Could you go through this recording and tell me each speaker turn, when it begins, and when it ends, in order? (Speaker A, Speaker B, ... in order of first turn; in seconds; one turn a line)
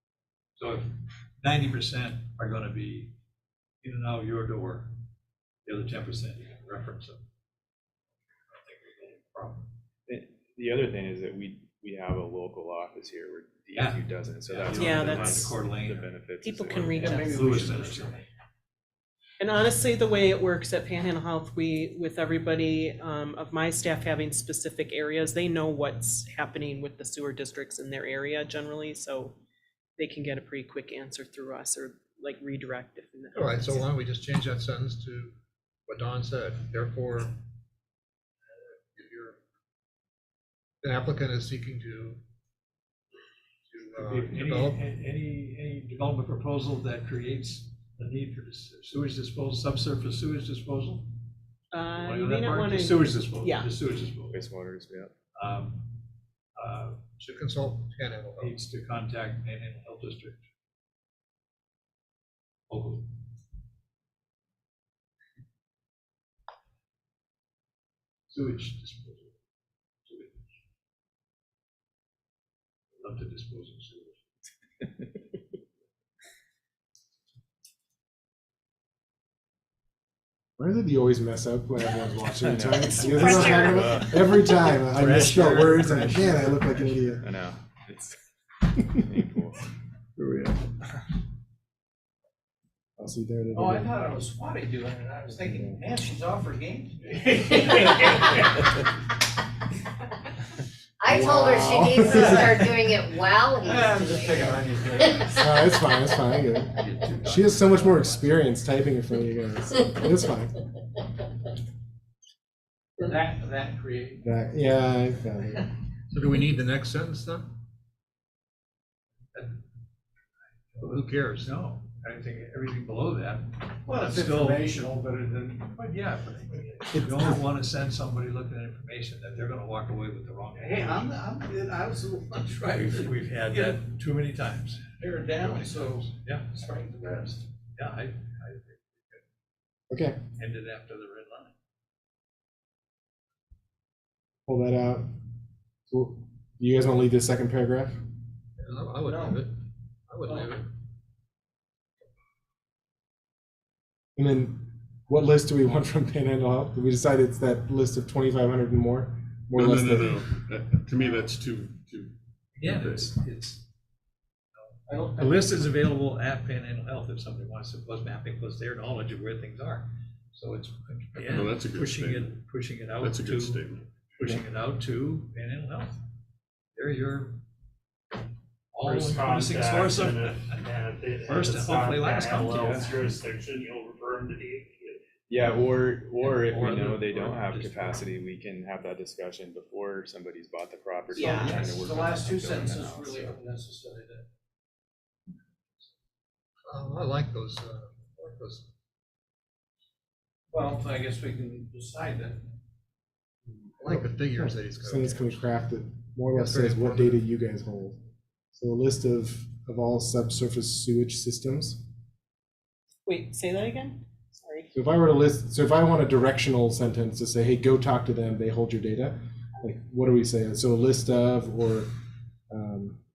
Speaker A: 0.6-0.9
Speaker A: 1.4-3.1
Speaker A: 3.8-4.9
Speaker A: 5.6-7.2
Speaker A: 8.5-9.7
Speaker B: 10.1-17.2
Speaker A: 13.7-16.1
Speaker C: 14.7-15.5
Speaker C: 16.4-17.6
Speaker D: 17.0-18.2
Speaker A: 17.1-18.2
Speaker C: 19.4-29.4
Speaker C: 30.0-33.9
Speaker E: 33.3-35.3
Speaker E: 35.9-37.4
Speaker E: 38.6-39.4
Speaker E: 40.8-42.2
Speaker E: 43.7-44.8
Speaker A: 44.0-51.1
Speaker C: 51.7-53.7
Speaker A: 51.9-54.4
Speaker B: 54.3-55.1
Speaker A: 55.4-56.0
Speaker A: 56.6-57.0
Speaker E: 57.2-58.5
Speaker A: 58.4-60.4
Speaker A: 62.7-63.1
Speaker A: 68.3-69.3
Speaker A: 70.0-70.5
Speaker A: 72.9-74.2
Speaker F: 80.6-87.2
Speaker B: 82.4-84.2
Speaker A: 83.1-83.6
Speaker C: 83.1-84.1
Speaker A: 84.7-87.1
Speaker B: 87.2-88.2
Speaker B: 88.8-89.6
Speaker A: 90.2-90.8
Speaker F: 93.0-93.9
Speaker D: 93.5-98.5
Speaker F: 95.3-95.8
Speaker G: 101.0-104.3
Speaker F: 101.0-102.7
Speaker D: 103.6-105.4
Speaker F: 105.2-110.6
Speaker A: 106.8-108.4
Speaker D: 113.0-114.2
Speaker F: 114.2-115.6
Speaker E: 116.1-117.5
Speaker A: 119.3-119.6
Speaker A: 120.7-124.8
Speaker E: 120.8-121.5
Speaker D: 123.8-125.7
Speaker A: 125.6-131.2
Speaker D: 130.6-133.8
Speaker A: 132.8-134.9
Speaker D: 135.0-137.4
Speaker A: 136.2-136.5
Speaker A: 137.7-139.2
Speaker F: 139.9-140.2
Speaker A: 140.3-141.5
Speaker F: 144.4-145.1
Speaker F: 145.9-148.0
Speaker E: 148.6-149.5
Speaker D: 149.0-149.4
Speaker E: 150.1-150.7
Speaker D: 150.2-150.5
Speaker F: 154.2-160.3
Speaker H: 159.5-163.1
Speaker A: 162.6-163.7
Speaker A: 164.5-176.0
Speaker D: 164.9-165.8
Speaker H: 171.2-172.3
Speaker H: 173.0-173.9
Speaker A: 176.8-177.4
Speaker A: 178.7-182.9
Speaker I: 178.8-185.0
Speaker B: 182.5-182.9
Speaker B: 185.3-193.4
Speaker A: 186.2-188.0
Speaker C: 191.1-191.7
Speaker D: 191.2-194.2
Speaker E: 196.7-198.7
Speaker D: 200.5-202.4
Speaker E: 203.8-205.4
Speaker F: 203.8-208.0
Speaker E: 206.3-207.2
Speaker F: 208.5-211.8
Speaker C: 213.1-214.7
Speaker F: 214.7-221.9
Speaker F: 222.5-223.0